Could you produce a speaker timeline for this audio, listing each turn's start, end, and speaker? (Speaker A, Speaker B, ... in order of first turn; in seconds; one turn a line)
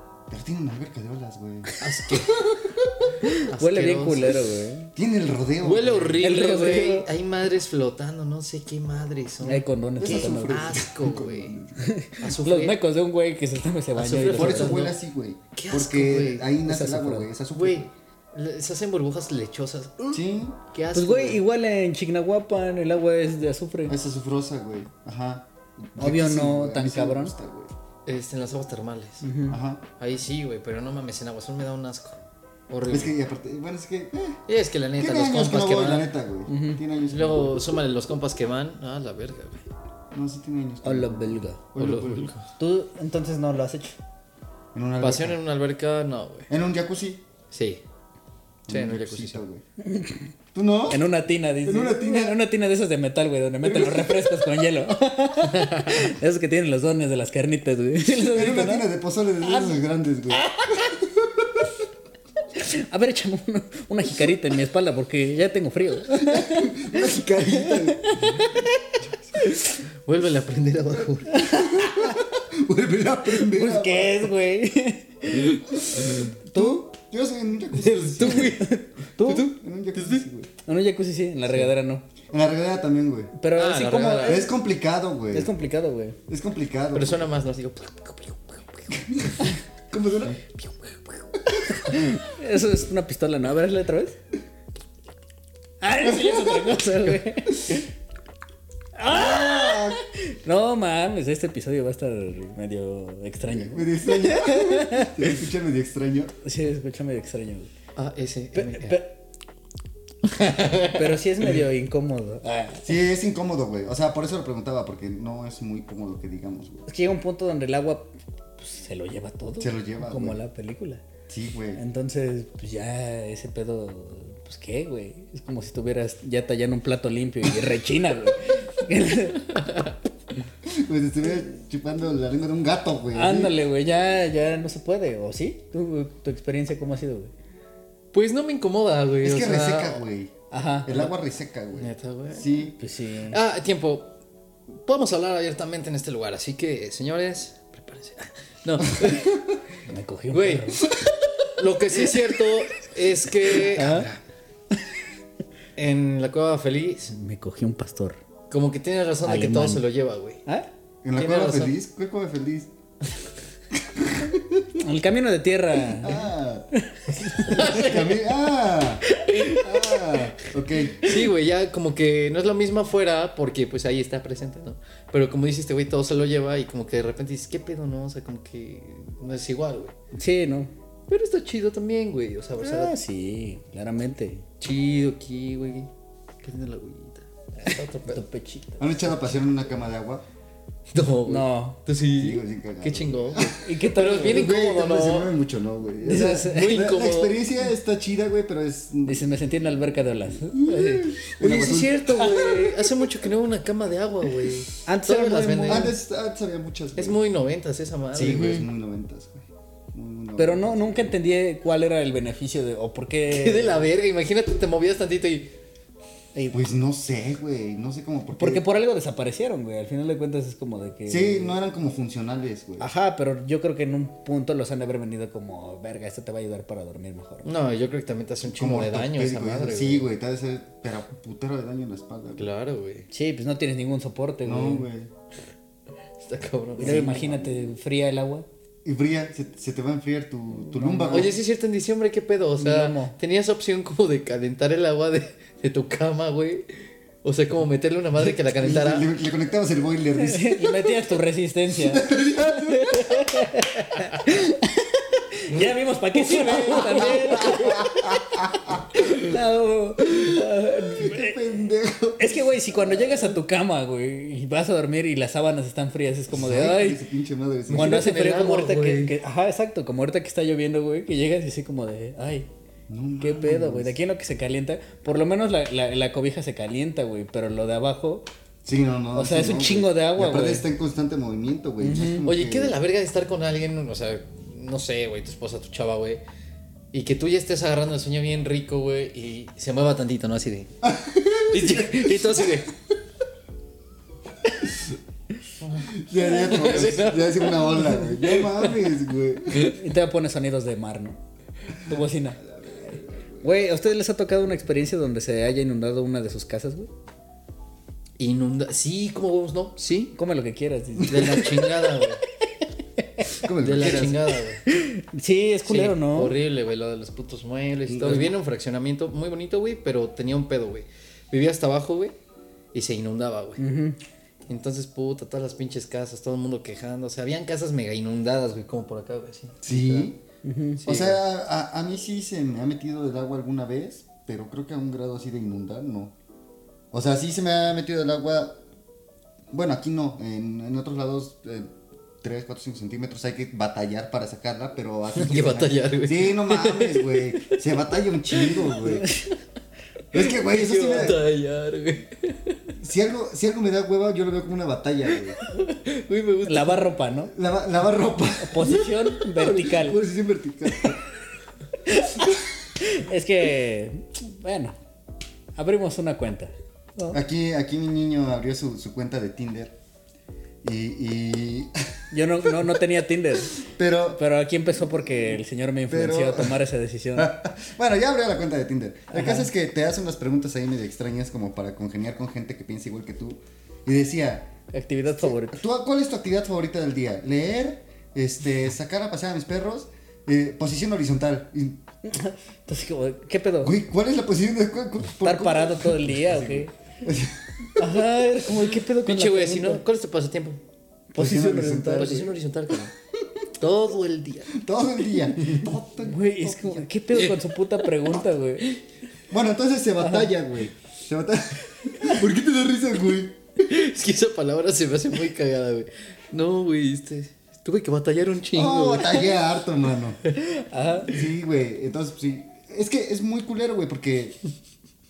Speaker A: 0.3-3.2
Speaker B: 1.8-2.5
Speaker C: 3.2-4.9
Speaker B: 3.5-4.4
Speaker A: 5.0-6.2
Speaker B: 5.6-11.6
Speaker C: 6.2-7.1
Speaker C: 9.4-10.8
Speaker A: 10.0-12.0
Speaker C: 11.8-14.9
Speaker B: 12.2-12.8
Speaker B: 13.9-15.0
Speaker A: 14.3-17.9
Speaker B: 15.6-16.5
Speaker C: 16.6-17.3
Speaker B: 17.5-21.4
Speaker A: 20.1-20.6
Speaker C: 20.9-24.0
Speaker A: 23.9-27.7
Speaker C: 26.0-27.3
Speaker B: 28.1-29.3
Speaker C: 29.2-29.6
Speaker A: 29.5-29.8
Speaker B: 30.0-32.2
Speaker B: 32.7-33.1
Speaker A: 32.9-34.4
Speaker B: 34.5-36.1
Speaker A: 35.0-37.8
Speaker C: 36.5-36.8
Speaker B: 37.1-39.6
Speaker A: 40.1-42.3
Speaker C: 40.8-41.6
Speaker B: 41.8-42.5
Speaker C: 42.6-44.0
Speaker A: 44.7-45.4
Speaker B: 45.0-46.5
Speaker A: 46.5-47.2
Speaker B: 47.5-47.8
Speaker A: 48.7-49.6
Speaker B: 48.7-49.4
Speaker C: 49.8-50.3
Speaker A: 50.5-51.1
Speaker C: 50.9-58.9
Speaker A: 51.6-52.4
Speaker A: 53.6-54.5
Speaker B: 55.5-56.1
Speaker A: 58.3-61.7
Speaker C: 59.4-61.0
Speaker C: 62.6-69.7
Speaker A: 66.1-68.3
Speaker B: 70.1-71.5
Speaker A: 71.3-74.3
Speaker C: 71.3-72.2
Speaker C: 73.3-76.8
Speaker A: 75.7-78.6
Speaker B: 77.8-80.2
Speaker C: 78.2-79.5
Speaker A: 79.4-80.5
Speaker C: 80.7-82.0
Speaker A: 82.3-83.3
Speaker C: 83.4-84.5
Speaker B: 83.5-84.5
Speaker A: 84.2-85.5
Speaker C: 85.3-86.2
Speaker A: 86.3-87.3
Speaker B: 86.9-89.0
Speaker A: 88.9-90.4
Speaker B: 90.5-91.0
Speaker A: 91.5-92.0
Speaker C: 91.8-94.2
Speaker C: 95.8-97.8
Speaker A: 96.1-96.8
Speaker C: 99.0-105.3
Speaker A: 99.1-100.0
Speaker A: 103.5-106.3
Speaker C: 106.4-107.7
Speaker B: 108.0-109.0
Speaker C: 108.5-109.2
Speaker B: 110.2-111.2
Speaker C: 110.8-112.8
Speaker A: 112.8-116.8
Speaker C: 116.9-121.0
Speaker A: 119.6-120.4
Speaker A: 121.3-121.8
Speaker C: 121.8-129.7
Speaker B: 129.7-129.9
Speaker A: 130.7-133.6
Speaker C: 133.1-137.3
Speaker B: 138.1-140.0
Speaker A: 139.2-142.8
Speaker C: 140.5-141.1
Speaker B: 141.8-142.6
Speaker C: 142.8-143.4
Speaker B: 143.3-144.1
Speaker B: 144.7-149.4
Speaker A: 149.0-149.6
Speaker C: 149.9-150.9
Speaker B: 150.3-150.8
Speaker B: 151.5-154.2
Speaker C: 153.7-154.1
Speaker B: 155.8-157.1
Speaker C: 157.1-158.2
Speaker B: 158.5-160.4
Speaker C: 159.2-159.9
Speaker A: 161.0-162.7
Speaker B: 161.2-161.7
Speaker A: 163.7-164.8
Speaker C: 164.8-167.8
Speaker A: 165.8-166.7
Speaker B: 167.3-168.1
Speaker A: 167.5-171.1
Speaker C: 169.1-170.2
Speaker B: 171.0-179.9
Speaker C: 180.2-180.7
Speaker B: 181.1-182.9
Speaker C: 182.6-184.4
Speaker B: 184.6-185.9
Speaker B: 186.4-188.2
Speaker C: 188.1-189.1
Speaker A: 188.8-190.2
Speaker B: 190.9-195.3
Speaker C: 191.2-191.8
Speaker A: 192.2-193.5
Speaker C: 193.5-194.6
Speaker A: 194.2-199.7
Speaker C: 196.0-196.8
Speaker B: 196.1-197.4
Speaker C: 199.1-201.2
Speaker A: 200.3-202.3
Speaker B: 201.4-205.9
Speaker C: 202.2-202.8
Speaker C: 204.9-206.0
Speaker A: 205.7-207.2
Speaker B: 207.0-208.6
Speaker A: 208.1-211.1
Speaker C: 208.2-208.7
Speaker C: 210.4-213.9
Speaker B: 213.3-215.5
Speaker A: 216.5-218.7
Speaker C: 218.4-221.6
Speaker A: 221.1-222.9
Speaker C: 222.8-227.4
Speaker B: 227.4-230.1
Speaker A: 228.4-232.5
Speaker B: 232.4-233.1
Speaker C: 233.1-234.9
Speaker A: 234.4-235.1
Speaker B: 236.2-237.1
Speaker A: 236.8-237.7
Speaker C: 236.8-238.5
Speaker A: 238.8-241.3
Speaker C: 240.7-241.4
Speaker B: 241.1-246.7
Speaker C: 242.6-243.2
Speaker B: 247.2-249.1
Speaker A: 248.2-250.9
Speaker C: 250.2-258.4
Speaker A: 251.8-253.4
Speaker A: 256.2-259.3
Speaker C: 258.9-261.4
Speaker A: 260.1-263.4
Speaker C: 262.2-267.0
Speaker A: 266.3-268.1
Speaker B: 267.7-269.2
Speaker C: 267.7-272.5
Speaker A: 272.9-273.9
Speaker C: 273.2-278.3
Speaker A: 278.6-282.8
Speaker C: 279.1-280.6
Speaker C: 281.8-282.3
Speaker B: 282.2-286.2
Speaker B: 286.9-290.7
Speaker A: 290.8-292.8
Speaker B: 291.5-292.7
Speaker B: 295.6-298.7
Speaker A: 295.9-299.8
Speaker C: 299.6-301.2
Speaker C: 301.7-302.4
Speaker A: 302.6-303.5
Speaker C: 303.4-306.9
Speaker B: 308.2-310.1
Speaker C: 310.2-312.0
Speaker A: 311.0-311.4
Speaker B: 311.1-312.2
Speaker C: 313.2-314.1
Speaker A: 313.4-314.2
Speaker B: 313.6-314.6
Speaker C: 314.7-316.4
Speaker B: 315.6-322.2
Speaker A: 317.9-318.3
Speaker B: 322.7-323.6
Speaker C: 323.6-324.0
Speaker B: 324.5-330.1
Speaker A: 329.6-330.2
Speaker C: 330.4-330.9
Speaker B: 330.8-331.2
Speaker A: 330.9-336.1
Speaker A: 336.9-338.6
Speaker A: 339.5-349.1
Speaker B: 345.1-347.7
Speaker B: 348.3-349.2
Speaker A: 350.1-351.2
Speaker B: 350.2-352.6
Speaker A: 352.8-355.4
Speaker B: 355.4-356.9
Speaker C: 356.4-357.3
Speaker A: 357.3-361.0
Speaker C: 358.4-360.0
Speaker C: 361.9-364.8
Speaker C: 365.6-367.2
Speaker A: 367.1-369.8
Speaker A: 370.6-371.9
Speaker C: 372.1-377.3
Speaker A: 373.6-374.2
Speaker A: 375.9-376.6
Speaker A: 377.1-384.5
Speaker C: 379.1-379.5
Speaker C: 384.7-385.6
Speaker A: 385.1-391.8
Speaker C: 392.1-393.8
Speaker A: 393.6-398.0
Speaker C: 395.2-396.7
Speaker C: 397.8-399.8
Speaker B: 399.1-400.6
Speaker C: 401.1-402.3
Speaker A: 401.2-402.2
Speaker B: 401.9-402.9
Speaker B: 403.6-404.6
Speaker A: 404.5-406.9
Speaker C: 406.1-408.8
Speaker B: 407.1-407.9
Speaker A: 409.3-413.4
Speaker C: 410.0-410.3
Speaker B: 413.6-419.4
Speaker A: 418.5-420.2
Speaker C: 420.4-421.2
Speaker A: 421.1-424.4